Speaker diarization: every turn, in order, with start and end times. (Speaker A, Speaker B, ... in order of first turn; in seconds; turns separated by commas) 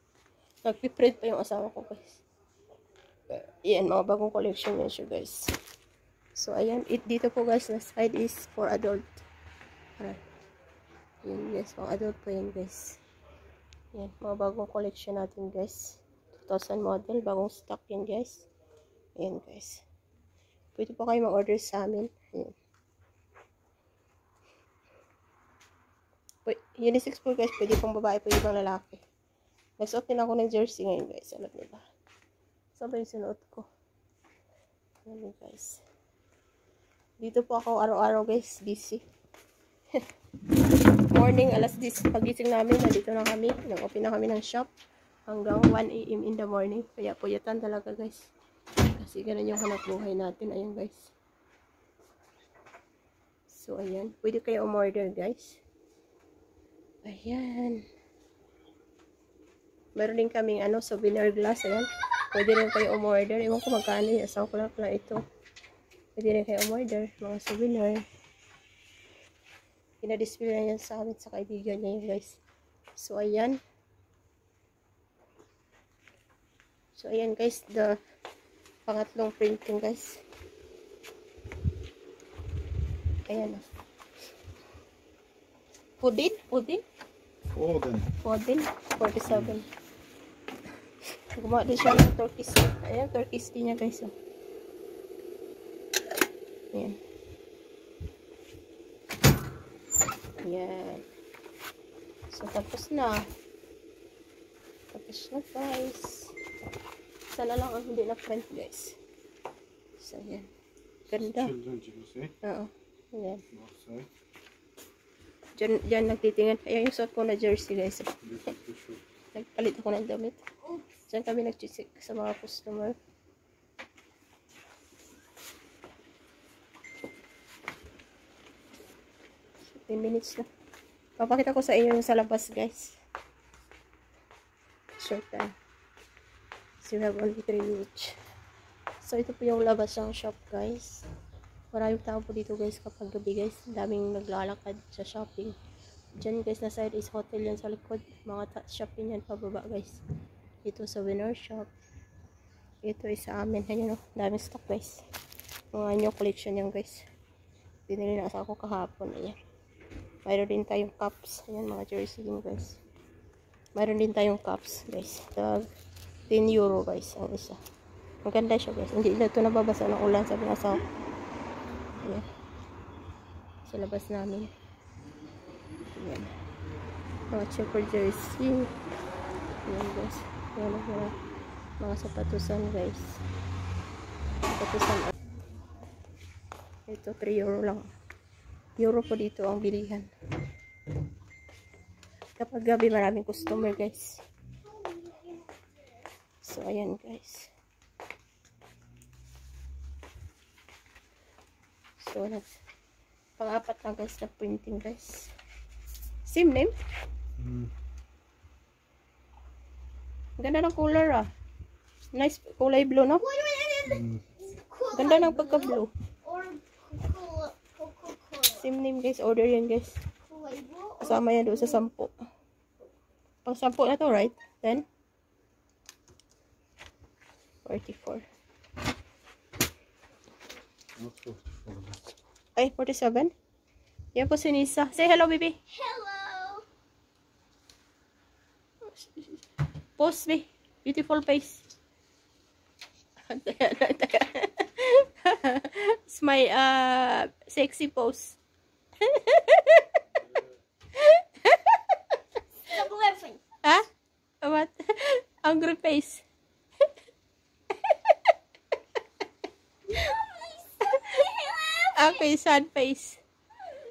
Speaker A: 0.6-2.2, Speaker A: 3.3-5.5, Speaker A: 6.3-9.2, Speaker A: 11.2-13.0, Speaker A: 13.9-18.5, Speaker A: 19.2-19.8, Speaker A: 20.8-22.5, Speaker A: 26.4-29.0, Speaker A: 29.8-31.8, Speaker A: 32.8-33.7, Speaker A: 35.1-35.8, Speaker A: 37.2-39.0, Speaker A: 41.1-44.7, Speaker A: 45.3-48.3, Speaker A: 48.8-51.1, Speaker A: 53.5-55.6, Speaker A: 57.0-57.9, Speaker A: 60.0-65.2, Speaker A: 66.2-68.0, Speaker A: 70.0-72.4, Speaker A: 73.0-73.6, Speaker A: 77.0-78.0, Speaker A: 78.9-80.2, Speaker A: 83.3-83.7, Speaker A: 86.0-86.8, Speaker B: 87.5-88.1, Speaker A: 88.2-89.7, Speaker B: 89.3-89.5, Speaker A: 91.4-94.1, Speaker A: 100.4-101.0, Speaker A: 102.3-103.3, Speaker A: 104.9-106.3, Speaker A: 107.3-109.0, Speaker A: 110.0-110.5, Speaker B: 111.0-112.3, Speaker A: 111.1-111.5, Speaker A: 112.4-113.4, Speaker B: 113.5-114.1, Speaker A: 115.6-118.1, Speaker B: 118.2-119.0, Speaker A: 119.3-120.4, Speaker A: 121.1-123.0, Speaker A: 129.7-130.5, Speaker A: 131.2-133.0, Speaker A: 135.0-135.5, Speaker A: 136.8-138.2, Speaker A: 139.0-141.1, Speaker A: 141.7-145.6, Speaker A: 146.2-150.0, Speaker A: 150.6-151.7, Speaker A: 152.8-155.0, Speaker A: 155.7-157.1, Speaker A: 157.9-159.4, Speaker A: 160.2-162.8, Speaker A: 163.8-165.7, Speaker A: 166.3-167.6, Speaker A: 168.2-170.8, Speaker A: 173.7-174.5, Speaker A: 175.9-176.3, Speaker A: 177.3-178.7, Speaker A: 179.7-181.2, Speaker A: 181.8-183.2, Speaker A: 184.5-185.1, Speaker A: 186.9-187.9, Speaker A: 188.8-190.1, Speaker A: 192.4-194.2, Speaker C: 194.6-195.6, Speaker A: 196.4-197.5, Speaker A: 202.0-202.5, Speaker A: 203.4-205.3, Speaker A: 206.2-206.8, Speaker B: 207.4-207.7, Speaker A: 210.4-211.3, Speaker A: 212.1-213.3, Speaker C: 213.2-218.6, Speaker B: 213.9-214.2, Speaker A: 214.9-215.9, Speaker A: 218.5-220.0, Speaker C: 220.3-221.8, Speaker A: 221.0-222.1, Speaker A: 223.4-224.9, Speaker A: 227.7-228.2, Speaker B: 231.0-232.1, Speaker A: 232.6-233.3, Speaker A: 234.2-235.6, Speaker C: 235.7-236.7, Speaker A: 238.9-239.4, Speaker A: 240.0-241.7, Speaker A: 243.3-248.4, Speaker A: 249.0-249.9, Speaker A: 250.9-251.8, Speaker C: 252.7-253.4, Speaker A: 254.4-256.2, Speaker C: 259.9-262.2, Speaker A: 261.9-263.2